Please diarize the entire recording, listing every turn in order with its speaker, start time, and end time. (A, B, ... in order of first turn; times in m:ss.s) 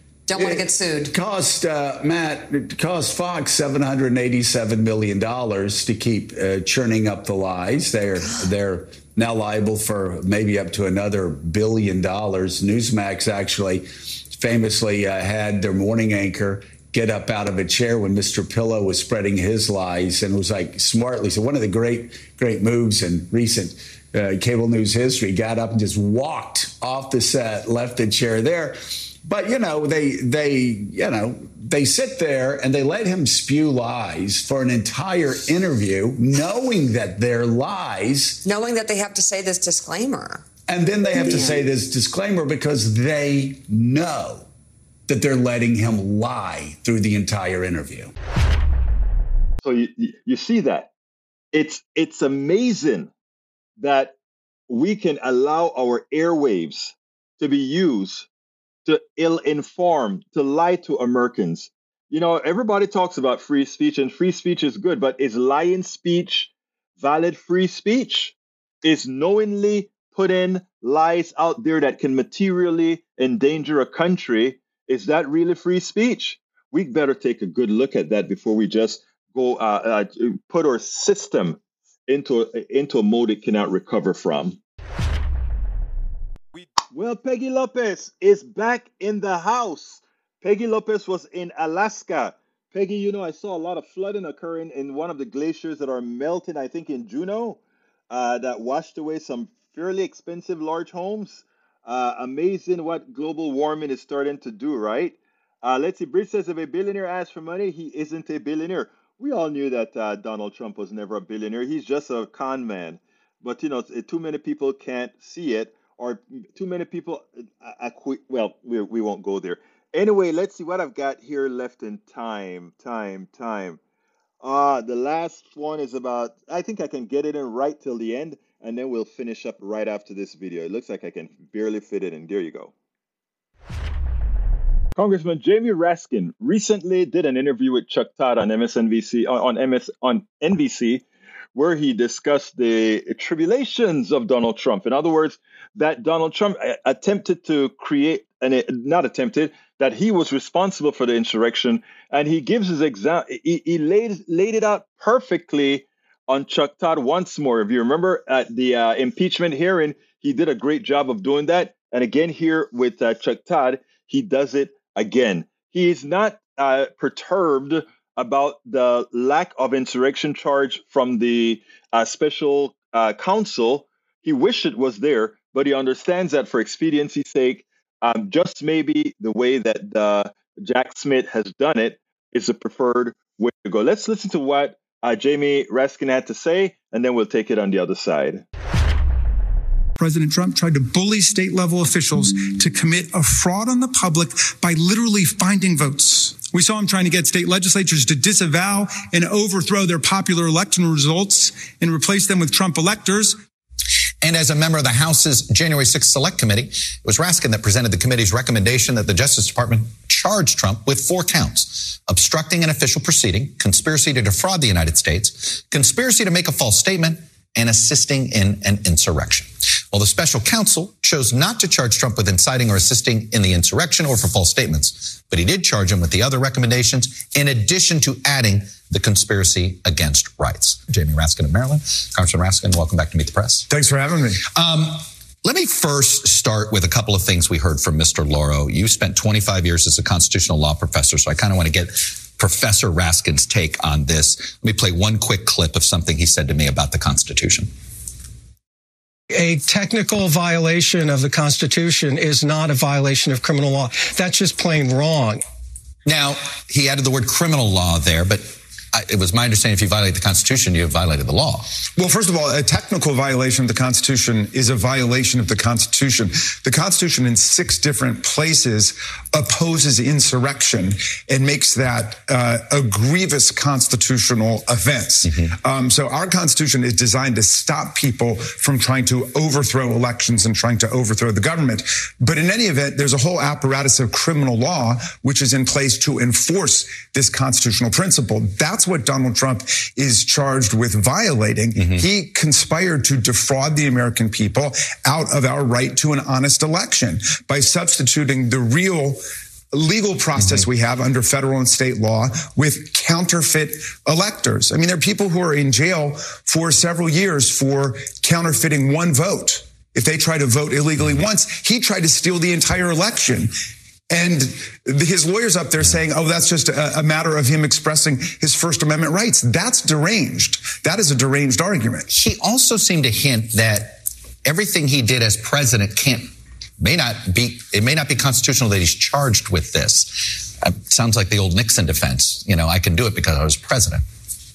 0:00.3-0:01.1 A
0:00.3-0:38.4 B
0:38.4-0:40.5 A
0:40.7-0:44.5 B
0:41.1-0:41.6 A
0:45.1-0:48.1 B
0:49.6-0:50.9 C
0:51.5-0:53.1 C
0:53.8-0:54.1 C
0:54.7-0:58.3 C
0:58.8-1:24.6 C
1:26.8-1:37.6 C
1:38.1-2:03.8 C
2:04.4-2:12.7 C
2:15.0-2:21.0 C
2:21.5-3:08.4 C
3:10.0-3:23.4 D
3:24.2-3:53.6 E
3:53.7-3:54.4 D
3:54.4-4:07.7 E
4:09.3-4:15.4 F
4:16.0-4:21.6 E
4:22.0-4:59.2 D
4:35.2-4:35.5 E
4:51.7-4:52.1 E
4:59.7-5:13.5 D
5:00.4-5:00.6 E
5:14.1-5:22.1 D
5:22.1-5:34.0 E